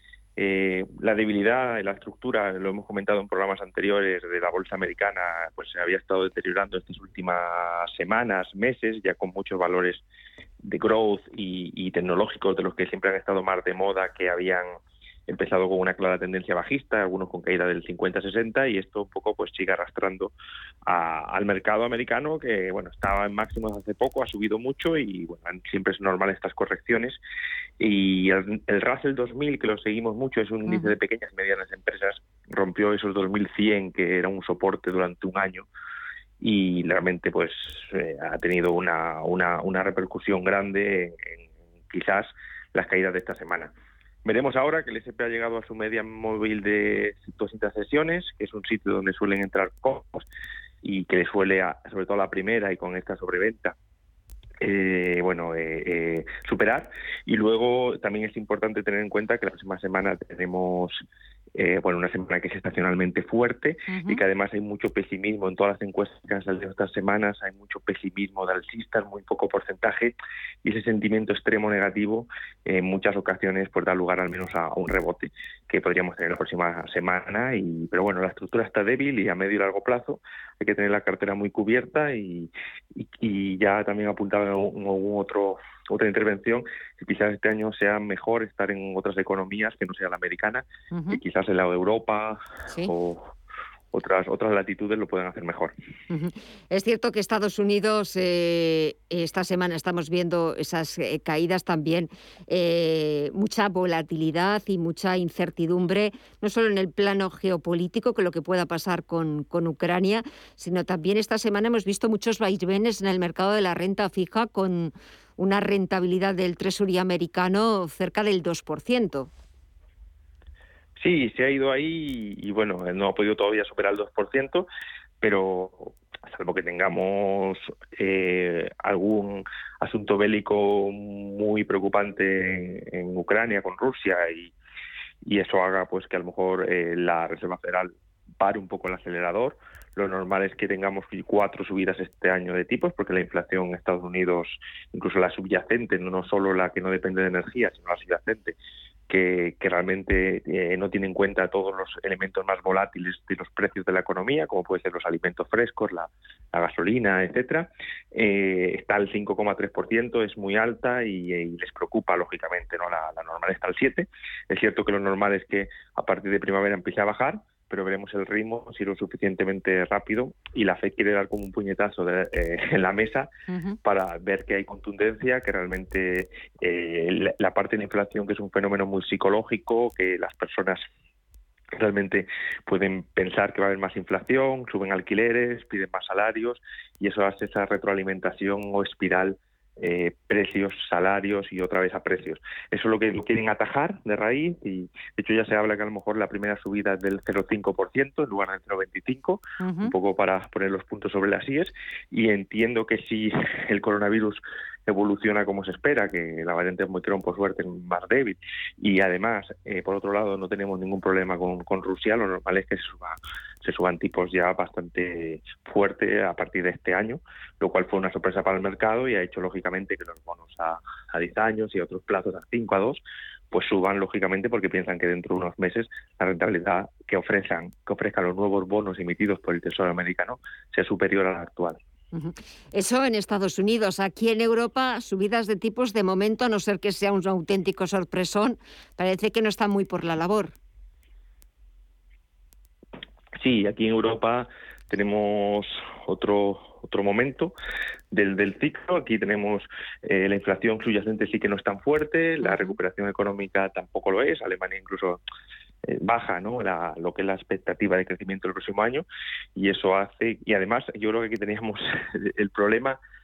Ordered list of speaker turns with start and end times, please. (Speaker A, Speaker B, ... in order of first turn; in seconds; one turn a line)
Speaker A: 0.4-10.0
Speaker A: 10.6-14.8
Speaker A: 15.3-20.3
Speaker A: 20.9-27.2
Speaker A: 27.8-35.7
Speaker B: 30.7-30.9
Speaker A: 36.4-43.7
Speaker A: 44.2-50.3
Speaker A: 50.8-53.7
Speaker A: 54.6-61.0
Speaker A: 61.5-93.3
Speaker B: 63.9-64.2
Speaker B: 90.9-91.2
Speaker A: 93.9-95.7
Speaker B: 96.1-119.3
Speaker A: 121.0-124.7
Speaker A: 125.2-134.5
Speaker A: 135.2-148.6
Speaker A: 149.1-173.3
Speaker B: 173.5-173.8
Speaker A: 173.8-180.8
Speaker A: 181.7-223.0
Speaker B: 199.6-199.9
Speaker A: 223.5-231.8
Speaker B: 232.1-240.5
Speaker A: 243.4-247.5
Speaker A: 248.1-255.2
Speaker B: 252.4-252.7
Speaker A: 255.8-259.0
Speaker A: 259.6-263.0